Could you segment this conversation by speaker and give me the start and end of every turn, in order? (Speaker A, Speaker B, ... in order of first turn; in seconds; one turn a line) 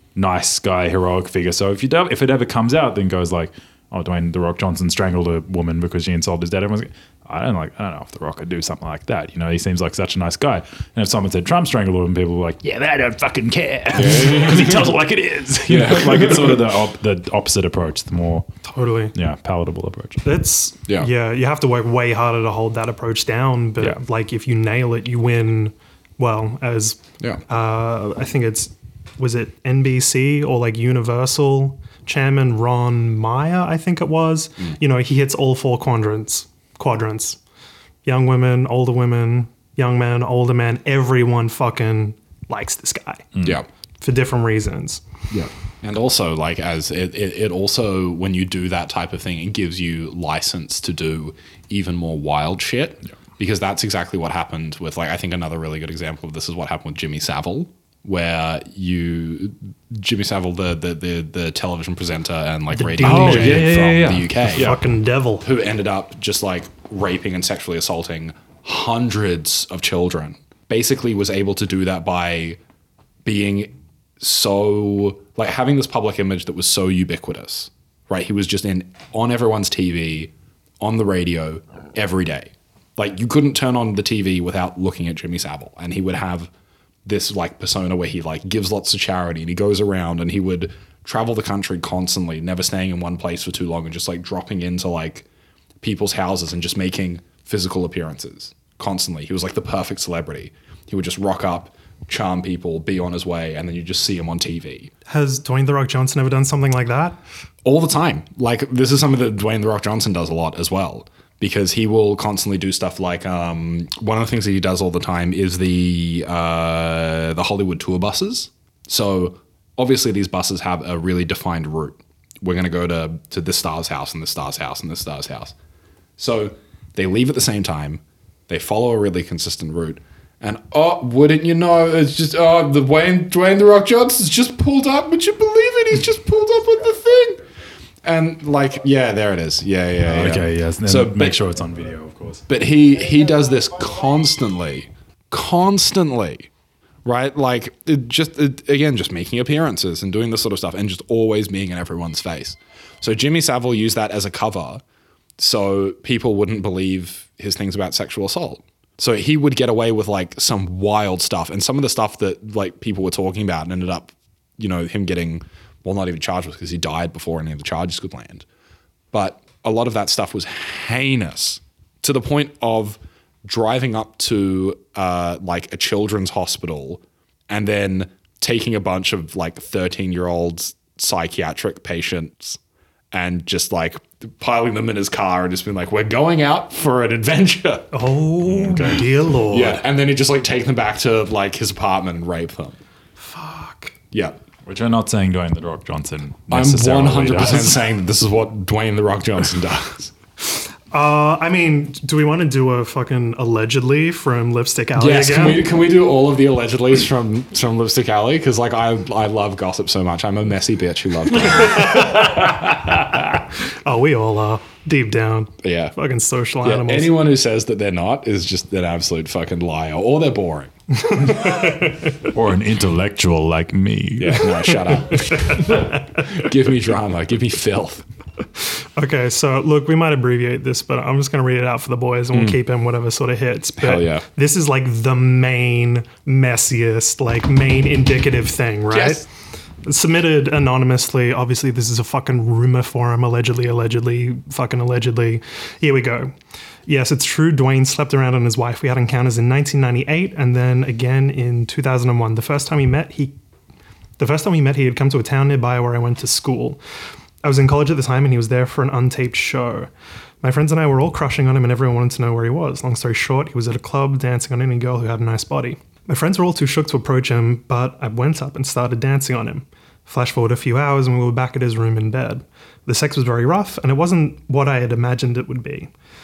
Speaker A: 0.2-18.5
Speaker B: 13.9-14.9
Speaker B: 15.7-16.6
Speaker C: 18.6-19.1
Speaker A: 19.1-20.2
Speaker C: 20.2-37.4
Speaker C: 38.0-43.3
Speaker A: 43.3-43.6
Speaker C: 44.0-45.0
Speaker B: 45.3-64.8
Speaker C: 62.7-63.9
Speaker A: 63.0-64.8
Speaker C: 64.5-65.5
Speaker B: 65.4-72.6
Speaker B: 73.2-86.5
Speaker B: 87.0-95.3
Speaker B: 95.8-104.9
Speaker C: 105.1-107.2
Speaker B: 107.6-125.5
Speaker B: 126.2-137.4
Speaker B: 138.0-141.4
Speaker A: 140.1-142.4
Speaker B: 142.5-146.5
Speaker B: 147.1-154.8
Speaker B: 155.4-168.4
Speaker B: 169.1-182.6
Speaker B: 183.1-187.9
Speaker C: 187.9-189.8
Speaker B: 188.5-189.0
Speaker B: 189.5-192.8
Speaker C: 193.2-193.9
Speaker B: 194.1-194.4
Speaker A: 194.7-197.8
Speaker B: 196.5-200.1
Speaker C: 200.9-205.7
Speaker B: 205.0-212.1
Speaker C: 211.4-212.5
Speaker C: 213.2-217.1
Speaker B: 215.6-215.9
Speaker B: 216.6-220.7
Speaker C: 220.9-222.3
Speaker A: 222.3-224.5
Speaker B: 224.2-228.1
Speaker C: 224.7-226.3
Speaker C: 228.6-239.3
Speaker B: 232.3-232.6
Speaker B: 233.8-234.3
Speaker B: 238.9-239.2
Speaker C: 239.8-246.3
Speaker C: 246.9-253.3
Speaker C: 254.2-256.8
Speaker C: 257.4-259.9
Speaker C: 260.4-275.9